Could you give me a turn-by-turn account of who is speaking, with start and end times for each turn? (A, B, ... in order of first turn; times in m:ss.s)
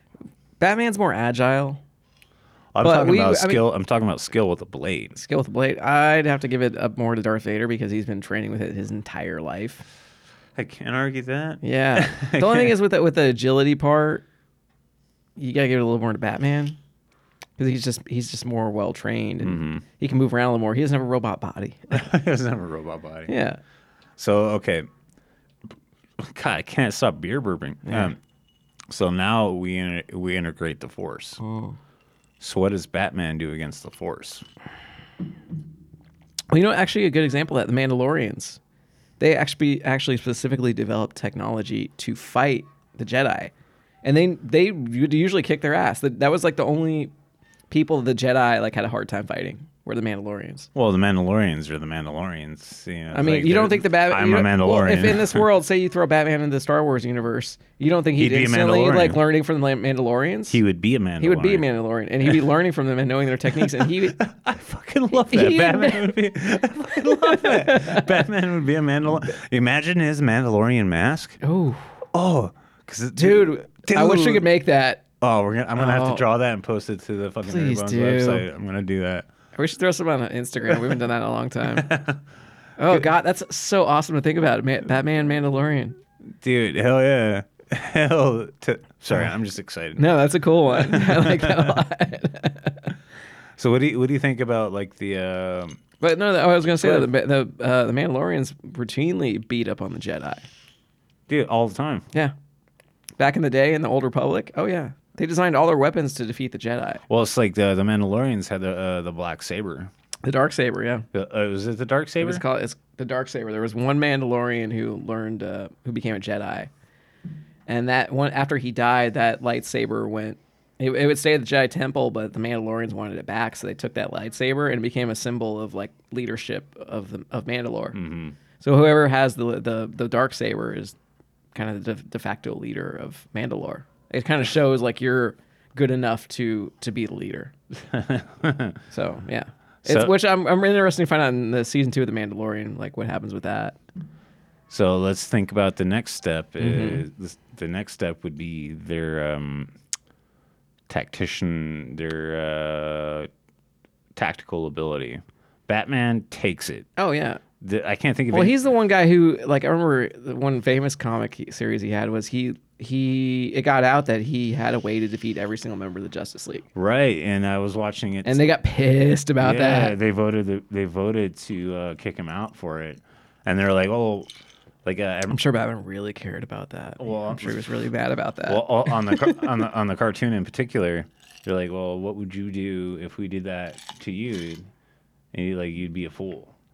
0:00.6-0:01.8 A
0:02.8-0:05.2 B
0:02.8-0:03.6 A
0:05.2-0:09.9 A
0:10.6-0:12.7 B
0:11.6-0:14.2 A
0:15.4-0:16.8 A
0:17.6-0:22.1 A
0:19.4-0:19.8 B
0:21.9-0:23.3 B
0:23.3-0:23.6 A
0:24.2-0:24.9 B
0:26.2-0:28.2 B
0:27.9-0:28.1 A
0:28.9-0:31.4 B
0:31.4-0:31.8 A
0:32.4-0:34.4 B
0:36.5-0:38.6 A
0:39.2-0:43.5 A
0:44.0-0:47.1 A
0:47.7-0:50.7 A
0:50.8-0:55.5 B
0:53.1-1:00.6 A
0:58.2-0:59.2 B
1:00.5-1:01.7 B
1:01.2-1:04.2 A
1:03.5-1:11.4 B
1:05.1-1:06.3 A
1:06.9-1:08.2 A
1:11.4-1:11.9 A
1:12.1-1:14.5 B
1:13.2-1:15.0 A
1:15.2-1:19.3 B
1:15.8-1:16.2 A
1:17.4-1:18.5 A
1:19.6-1:21.9 A
1:20.7-1:20.9 B
1:21.8-1:22.2 B
1:22.8-1:26.0 A
1:26.4-1:30.1 B
1:30.0-1:32.9 A
1:30.7-1:31.8 B
1:33.6-1:35.8 B
1:36.0-1:40.4 A
1:36.8-1:37.1 B
1:41.3-1:42.1 B
1:43.2-1:47.0 A
1:47.1-1:49.9 B
1:50.2-1:51.1 A
1:51.1-1:52.4 B
1:52.2-1:56.7 A
1:57.7-2:08.0 A
2:07.9-2:08.4 B
2:08.6-2:11.0 A
2:11.5-2:17.5 A
2:17.9-2:18.8 B
2:18.9-2:23.8 A
2:19.8-2:20.2 B
2:24.7-2:29.7 B
2:26.6-2:27.0 A
2:30.9-2:33.3 B
2:34.2-2:36.9 B
2:37.0-2:37.4 A
2:37.6-2:38.6 B
2:38.3-2:46.7 A
2:46.8-2:48.4 B
2:48.2-2:50.0 A
2:49.4-2:54.3 B
2:54.8-2:55.4 B
2:55.3-2:59.6 A
2:57.0-2:57.9 B
2:58.5-3:04.7 B
3:05.3-3:06.6 B